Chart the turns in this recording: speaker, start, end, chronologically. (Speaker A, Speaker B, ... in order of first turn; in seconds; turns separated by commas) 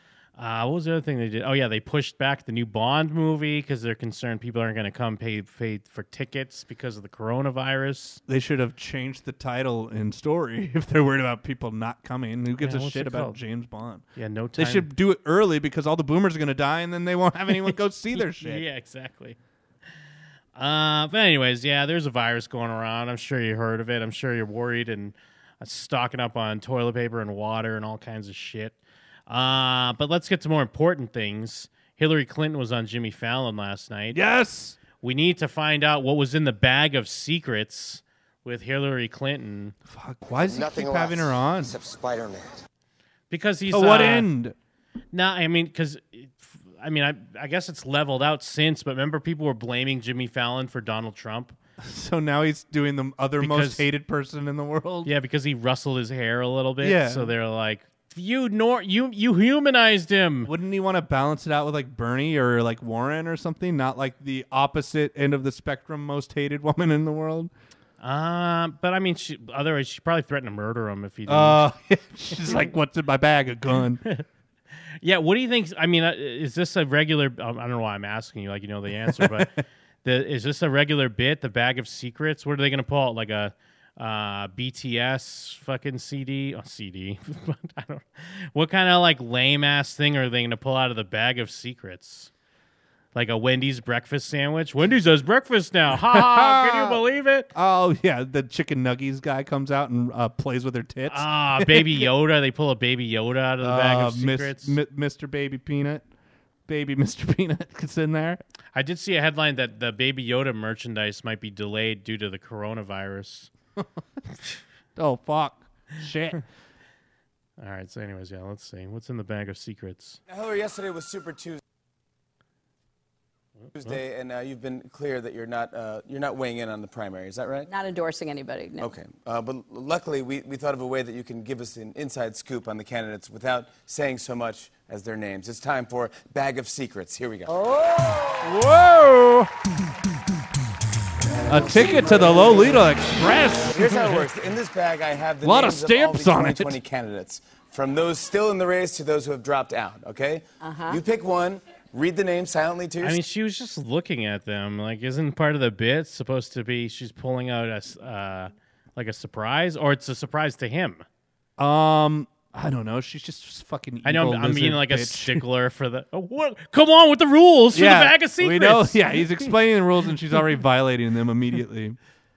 Speaker A: 0.4-8.2, Speaker B: 8.3-14.0, Speaker A: 12.6-13.4, Speaker A: 14.2-14.9, Speaker B: 14.6-18.6, Speaker A: 17.6-19.4, Speaker A: 20.6-28.8, Speaker A: 29.3-34.2, Speaker B: 34.1-34.8, Speaker A: 35.0-39.7, Speaker B: 39.9-41.8, Speaker C: 40.5-42.6, Speaker A: 43.3-44.3, Speaker B: 43.7-44.5, Speaker A: 45.1-51.5, Speaker B: 51.8-55.1, Speaker A: 53.4-53.9, Speaker A: 55.0-60.5, Speaker B: 56.8-57.3, Speaker B: 60.5-67.5, Speaker A: 68.0-71.7, Speaker B: 71.3-74.0, Speaker A: 75.0-79.5, Speaker B: 79.1-79.6, Speaker A: 80.0-92.3, Speaker A: 93.2-97.5, Speaker B: 95.9-97.0, Speaker B: 97.5-102.1, Speaker A: 101.1-104.8, Speaker B: 103.6-106.0, Speaker B: 106.7-108.4, Speaker A: 108.8-113.5, Speaker B: 115.0-116.4, Speaker A: 117.6-120.2, Speaker D: 120.3-121.6, Speaker D: 123.8-127.7, Speaker E: 127.7-128.9, Speaker D: 128.8-137.5, Speaker E: 137.5-138.6, Speaker B: 138.4-139.5, Speaker D: 141.5-142.3, Speaker B: 141.5-144.2, Speaker D: 143.7-153.2, Speaker B: 145.4-146.8, Speaker E: 150.6-151.0, Speaker A: 153.0-161.1, Speaker B: 161.6-165.4, Speaker A: 164.1-169.5, Speaker B: 167.7-172.0